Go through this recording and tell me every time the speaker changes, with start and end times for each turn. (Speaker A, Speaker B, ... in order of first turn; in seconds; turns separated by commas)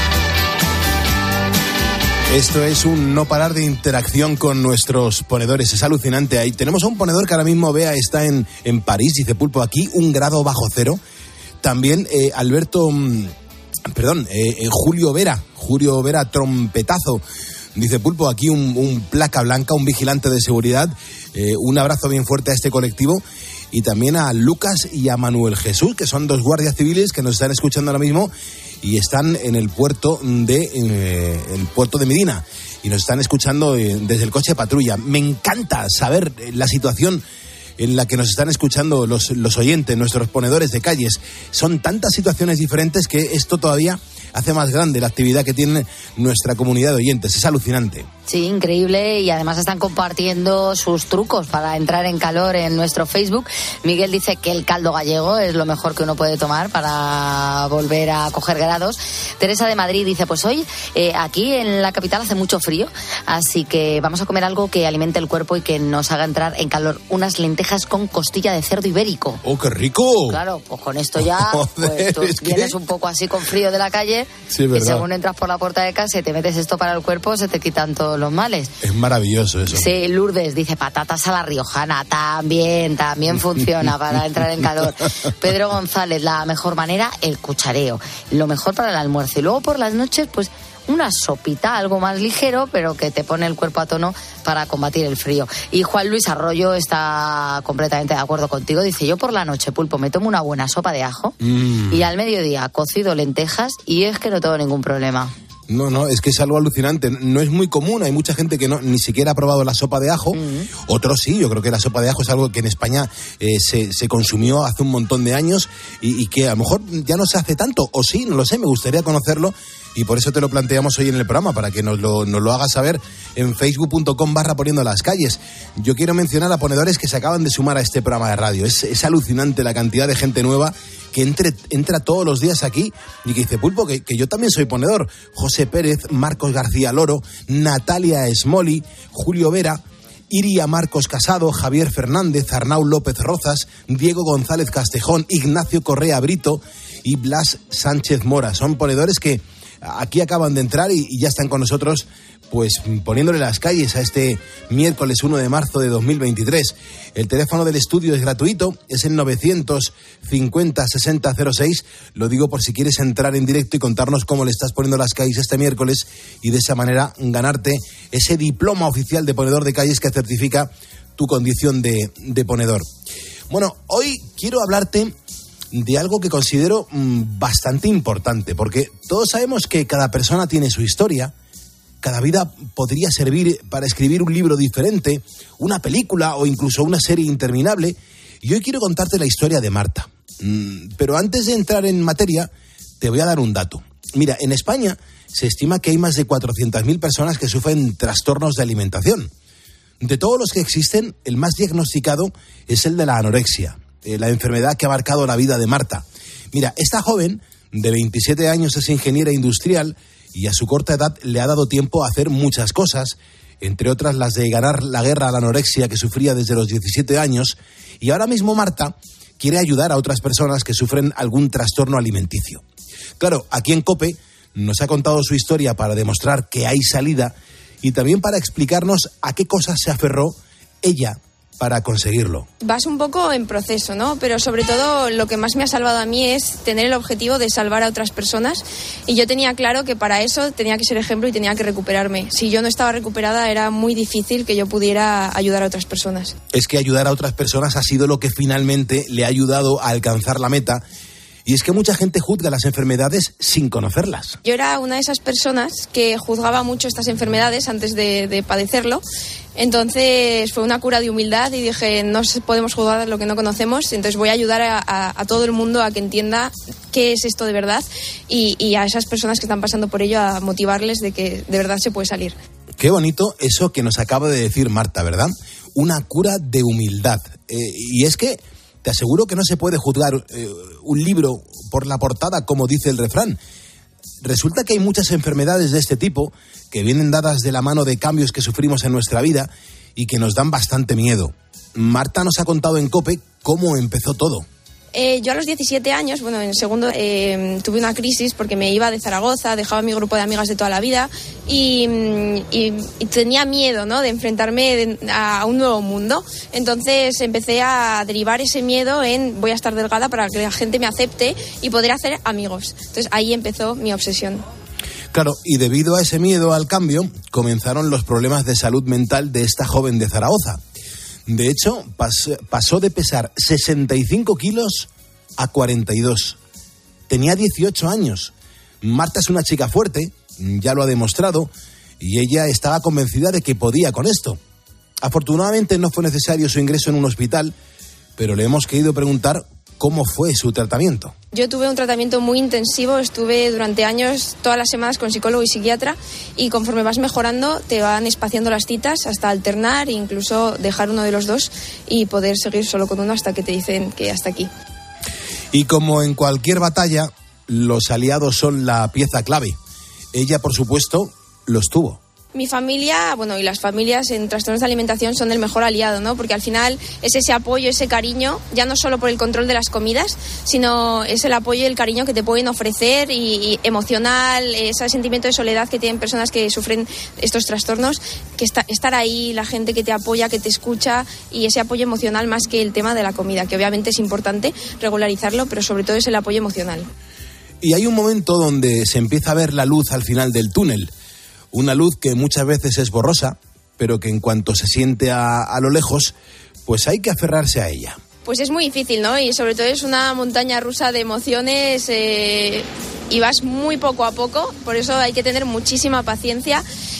Speaker A: 2.3-11.0, Speaker A: 11.6-13.3, Speaker A: 13.9-17.2, Speaker A: 17.8-28.3, Speaker A: 28.8-37.2, Speaker A: 37.8-48.1, Speaker B: 48.3-69.4, Speaker A: 69.4-70.4, Speaker B: 70.3-78.7, Speaker A: 71.2-72.8, Speaker A: 74.5-75.1, Speaker A: 78.8-79.9, Speaker B: 79.7-101.3, Speaker A: 83.3-84.2, Speaker A: 101.4-102.1, Speaker B: 101.9-105.3, Speaker A: 105.7-172.9, Speaker B: 110.3-110.7, Speaker A: 173.5-175.2, Speaker A: 175.7-181.3, Speaker A: 182.0-199.3, Speaker A: 200.0-222.6, Speaker A: 223.2-232.5, Speaker C: 232.6-246.3, Speaker A: 246.5-250.8, Speaker A: 251.4-254.4, Speaker C: 254.4-259.0, Speaker C: 259.6-272.4, Speaker A: 272.8-283.4, Speaker A: 284.2-294.5, Speaker C: 294.9-314.4, Speaker A: 315.1-320.6, Speaker A: 321.3-326.4, Speaker A: 327.1-334.4, Speaker A: 335.0-337.5, Speaker A: 338.2-341.1, Speaker C: 341.3-354.5, Speaker A: 355.5-359.6, Speaker A: 360.1-362.0, Speaker C: 362.3-386.9, Speaker A: 387.6-390.9, Speaker A: 391.5-396.1, Speaker A: 396.7-398.0, Speaker C: 398.2-406.6